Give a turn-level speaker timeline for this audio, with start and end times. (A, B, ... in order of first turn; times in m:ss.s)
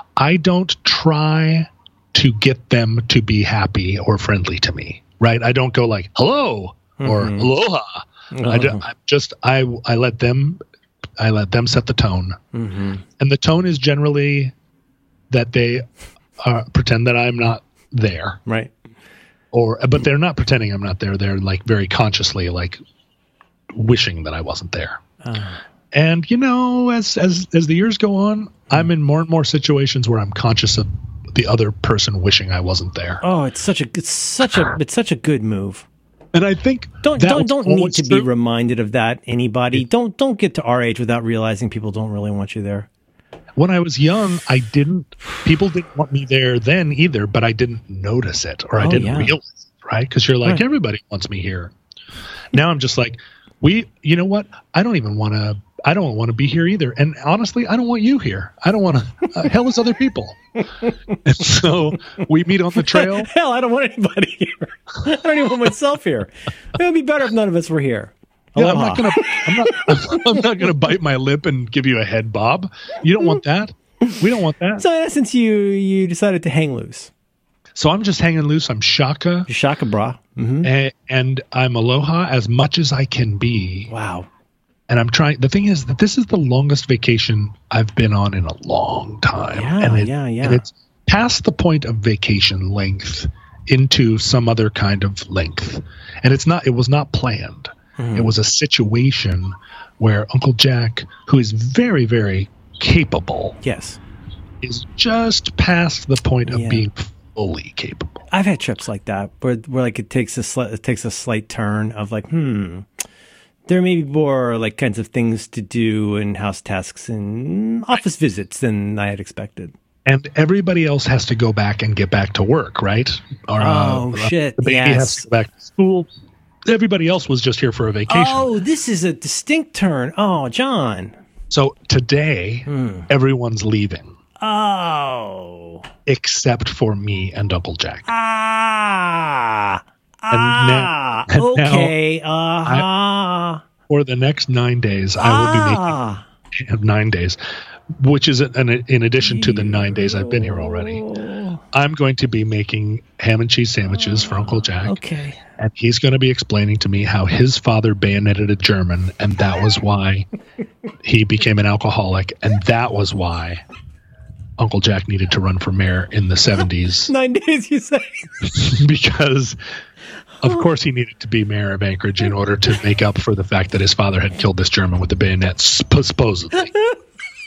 0:00.2-0:10.6 A
0:07.0-0:07.5 B
0:08.3-0:08.8 B
0:11.2-0:12.4 A
0:12.5-0:13.0 B
0:13.2-0:14.5 A
0:15.3-0:15.8 A
0:16.4-0:18.4 A
0:18.4-0:18.7 B
0:19.5-0:22.8 A
0:23.7-0:25.0 A
0:25.2-0:25.6 B
0:25.9-0:33.2 A
0:33.2-0:35.8 B
0:36.3-0:38.3 A
0:37.0-0:42.9 B
0:43.6-0:51.7 A
0:48.8-0:49.4 B
0:52.5-1:00.4 A
1:00.8-1:01.2 B
1:01.2-1:03.3 A
1:02.7-1:10.7 B
1:08.6-1:14.8 A
1:14.8-1:17.1 B
1:17.7-1:19.5 A
1:19.5-1:20.7 B
1:20.6-1:23.9 A
1:23.9-1:24.3 B
1:24.9-1:43.6 A
1:29.5-1:30.6 B
1:38.0-1:38.3 B
1:43.6-1:44.0 B
1:44.6-1:48.2 A
1:46.5-1:46.8 B
1:48.3-1:52.9 B
1:53.7-1:59.7 B
2:00.0-2:06.1 A
2:03.6-2:05.2 B
2:06.7-2:08.5 A
2:08.1-2:11.1 B
2:11.5-2:14.2 A
2:12.7-2:13.1 B
2:14.4-2:15.8 B
2:16.0-2:18.1 A
2:18.1-2:23.6 B
2:20.3-2:21.9 A
2:23.9-2:26.0 A
2:25.2-2:26.2 B
2:26.5-2:27.4 A
2:28.0-2:31.0 A
2:29.2-2:31.6 B
2:31.7-2:35.0 A
2:34.8-2:35.4 B
2:35.6-2:40.2 A
2:41.0-2:43.6 A
2:44.6-2:47.1 A
2:47.1-2:48.3 B
2:48.4-2:49.6 A
2:50.4-2:56.7 A
2:56.6-2:56.9 B